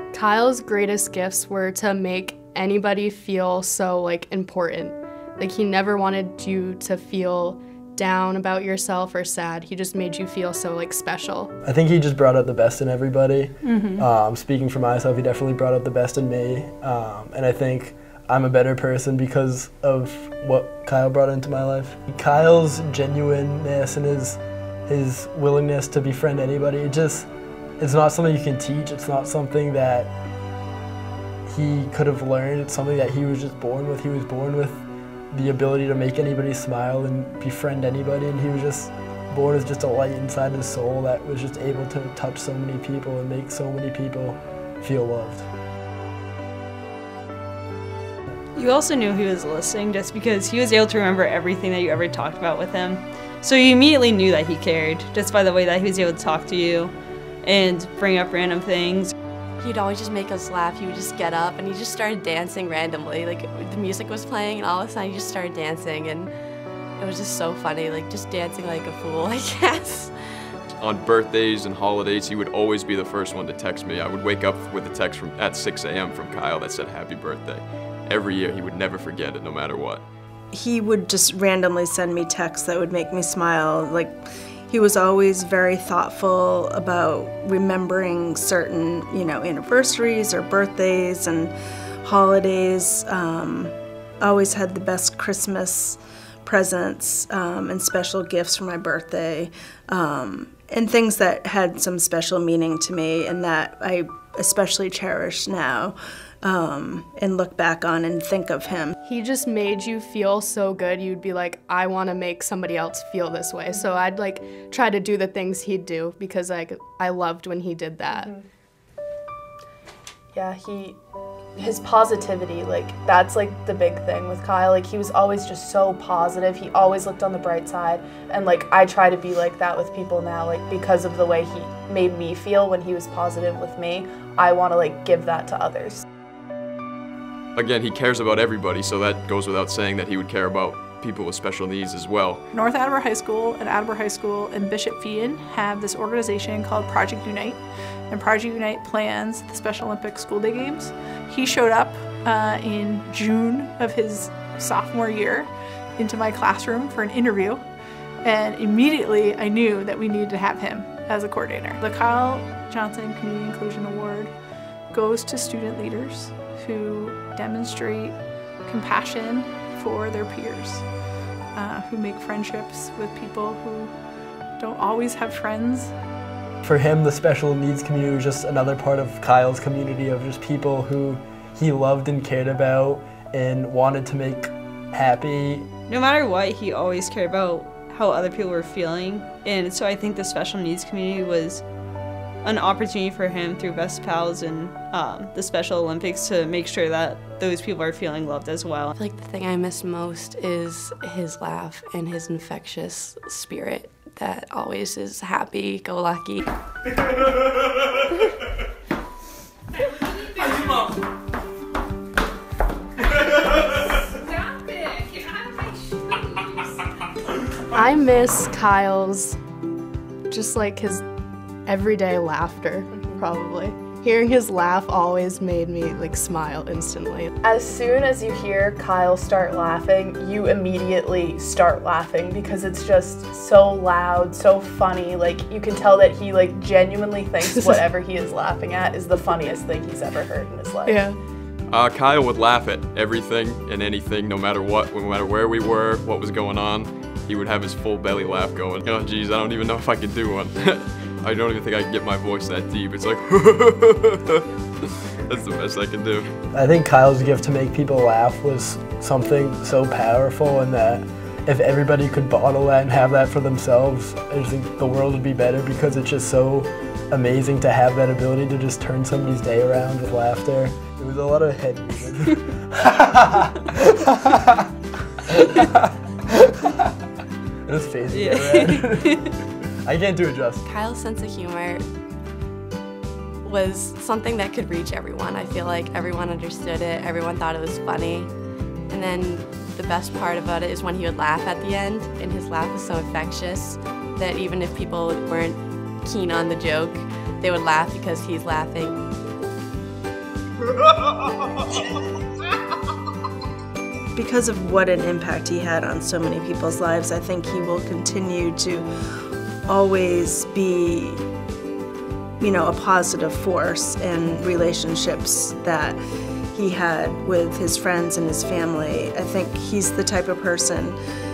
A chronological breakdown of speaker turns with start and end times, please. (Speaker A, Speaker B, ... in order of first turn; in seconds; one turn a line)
Speaker A: 0.1-11.5
Speaker B: 11.6-27.3
Speaker C: 13.7-14.1
Speaker B: 27.8-30.1
Speaker B: 31.5-45.5
Speaker D: 48.6-56.9
Speaker D: 57.4-59.1
Speaker E: 59.6-66.3
Speaker E: 67.0-70.1
Speaker F: 70.8-80.1
Speaker G: 80.5-108.9
Speaker A: 109.0-118.3
Speaker H: 118.1-118.5
Speaker H: 120.3-121.0
Speaker H: 121.6-136.0
Speaker F: 137.6-142.4
Speaker C: 142.5-157.7
Speaker C: 158.2-164.3
Speaker C: 164.9-170.8
Speaker C: 171.6-173.9
Speaker C: 174.6-175.9
Speaker B: 176.6-185.7
Speaker D: 185.9-191.6
Speaker D: 192.4-198.9
Speaker E: 199.0-206.4
Speaker A: 217.7-219.4
Speaker A: 220.3-221.0
Speaker A: 221.7-227.3
Speaker H: 222.9-223.2
Speaker H: 227.4-241.0
Speaker F: 241.7-256.3
Speaker B: 256.5-274.6
Speaker B: 275.3-275.9
Speaker B: 276.4-276.8
Speaker B: 277.7-280.7
Speaker D: 278.1-279.3
Speaker E: 280.7-281.9
Speaker E: 283.4-288.3
Speaker E: 288.9-299.0
Speaker G: 304.1-308.9
Speaker G: 309.7-311.2
Speaker G: 312.4-316.0
Speaker G: 316.5-321.0